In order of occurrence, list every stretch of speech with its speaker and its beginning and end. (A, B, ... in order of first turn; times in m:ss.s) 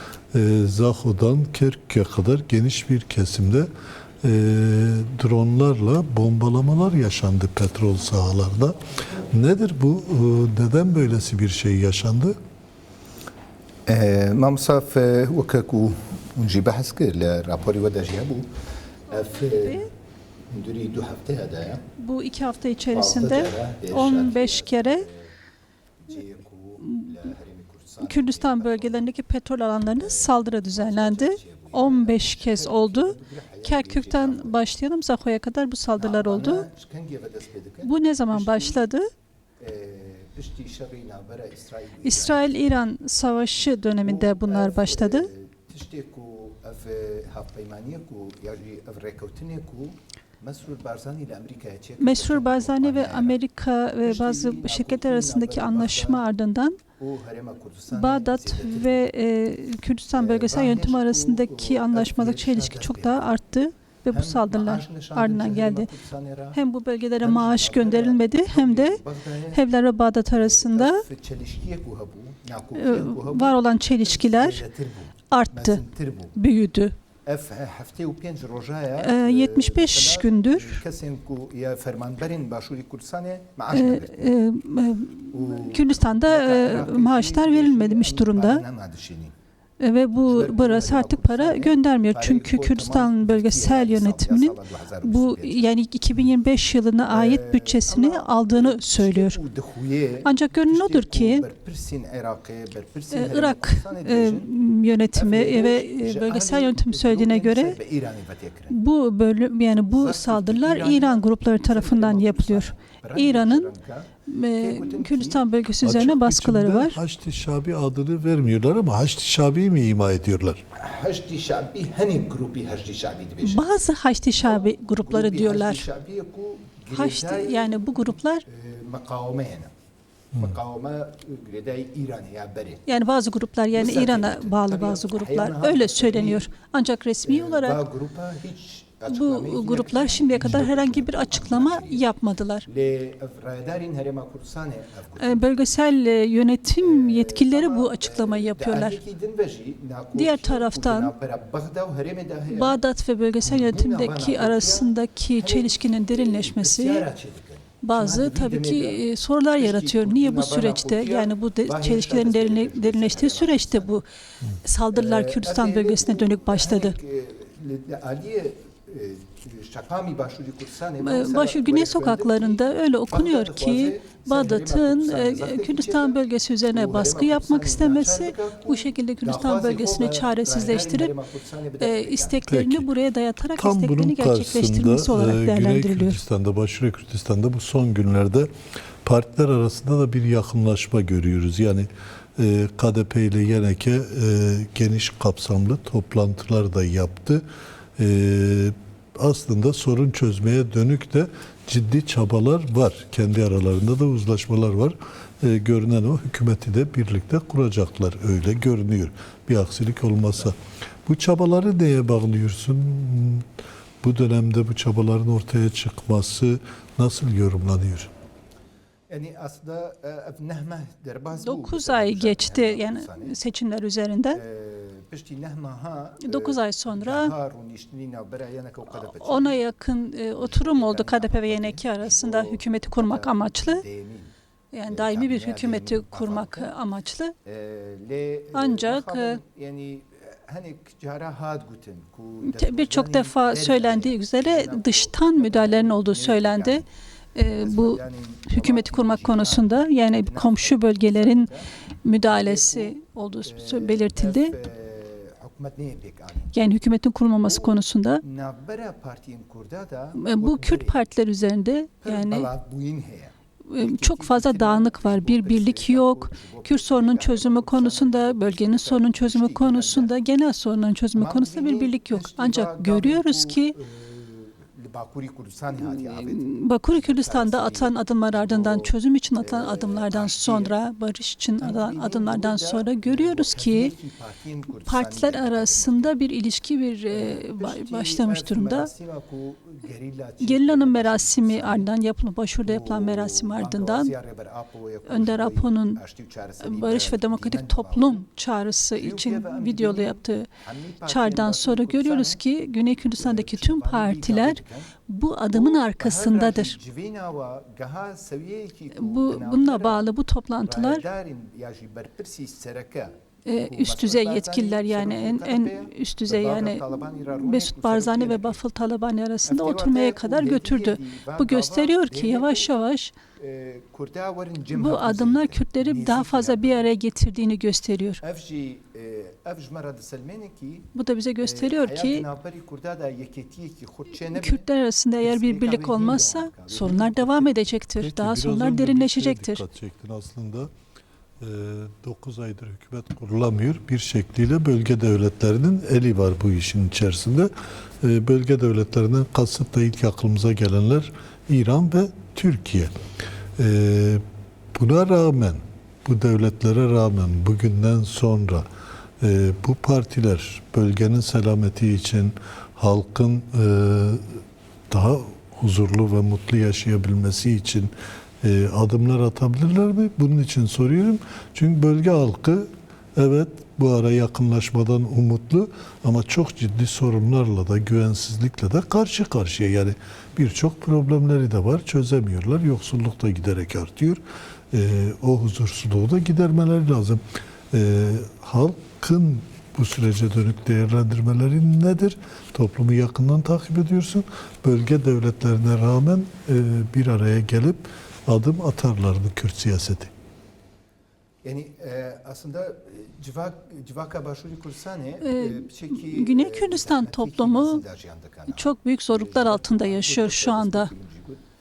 0:00.3-0:03.7 A
0:04.2-0:08.8 A
0:09.3-0:12.4 A
0:13.9-0:18.5 B
0:19.1-0:19.9 B
0:19.2-0:19.9 C
0:20.5-0:21.8 B
0:22.0-0:25.1 C
0:22.9-0:25.3 B
0:26.1-0:29.1 B
0:26.9-0:27.3 C
0:28.0-0:36.6 C
0:30.0-0:34.6 B
0:36.0-0:38.9 B
0:37.8-0:39.1 C
0:39.6-0:42.5 B
0:42.0-0:45.3 C
0:44.0-0:53.4 B
0:52.0-0:56.8 C
0:54.0-0:56.2 B
0:57.0-0:59.1 B
0:57.9-1:05.9 C
1:00.1-1:03.3 B
1:04.1-1:06.6 B
1:06.5-1:09.0 C
1:07.2-1:09.6 B
1:09.5-1:11.0 C
1:10.3-1:16.4 B
1:12.8-1:14.6 C
1:15.3-1:15.8 C
1:16.4-1:17.0 C
1:17.2-1:24.3 B
1:19.0-1:20.8 C
1:23.7-1:28.6 C
1:25.3-1:29.3 B
1:29.8-1:39.4 C
1:30.3-1:35.7 B
1:37.1-1:44.5 B
1:40.2-1:41.4 C
1:43.1-1:47.8 C
1:45.1-1:48.8 B
1:48.7-1:53.7 C
1:49.9-1:55.4 B
1:54.3-1:57.0 C
1:55.8-2:00.6 A
2:00.7-2:03.7 B
2:03.4-2:05.9 C
2:04.4-2:09.7 B
2:06.9-2:08.4 C
2:10.3-2:12.8 B
2:12.9-2:17.8 C
2:13.7-2:16.5 B
2:17.2-2:22.1 B
2:19.1-2:22.7 C
2:22.7-2:25.6 B
2:25.2-2:29.0 C
2:26.8-2:32.8 B
2:30.2-2:31.1 C
2:32.5-2:37.1 C
2:33.4-2:39.0 B
2:37.8-2:44.0 C
2:39.6-2:44.0 B
2:44.6-2:47.0 C
2:44.9-3:02.4 B
2:51.0-3:01.1 C
3:01.8-3:06.2 C
3:02.5-3:02.9 A
3:03.6-3:08.5 A
3:09.0-3:17.4 A
3:18.0-3:33.5 A
3:34.0-3:38.1 A
3:39.1-3:43.4 B
3:41.4-3:44.4 C
3:44.3-3:49.6 B
3:46.2-3:47.3 C
3:48.9-3:53.8 C
3:50.4-3:54.3 B
3:54.7-3:57.3 C
3:54.9-3:56.7 B
3:57.4-4:06.8 B
3:58.5-3:59.4 C
4:02.4-4:11.5 C
4:07.6-4:11.7 B
4:12.0-4:14.6 C
4:12.3-4:16.6 B
4:16.5-4:18.2 C
4:17.5-4:21.0 B
4:20.2-4:22.5 C
4:22.0-4:30.1 B
4:23.7-4:33.8 C
4:31.1-4:40.7 B
4:36.0-4:43.9 C
4:41.6-4:46.2 B
4:44.7-4:48.9 C
4:47.1-4:51.9 B
4:50.4-4:54.1 C
4:52.6-4:58.2 B
4:55.1-4:56.0 C
4:56.6-5:00.5 C
4:59.0-5:02.4 B
5:01.0-5:06.8 C
5:03.2-5:04.9 B
5:05.5-5:10.1 B
5:08.9-5:11.0 C
5:10.6-5:13.1 B
5:13.5-5:23.1 C
5:13.7-5:18.6 B
5:19.5-5:22.7 B
5:23.4-5:26.9 B
5:24.7-5:28.2 C
5:28.2-5:30.9 B
5:30.9-5:32.2 C
5:31.4-5:34.7 B
5:34.2-5:39.6 C
5:35.2-5:37.7 B
5:38.0-5:40.7 A
5:41.4-5:47.5 A
5:48.0-5:52.9 A
5:53.6-5:54.2 A
5:54.8-5:58.7 A
5:59.2-6:40.1 A
6:41.4-6:51.4 B
6:45.2-6:47.8 C
6:48.5-6:50.9 C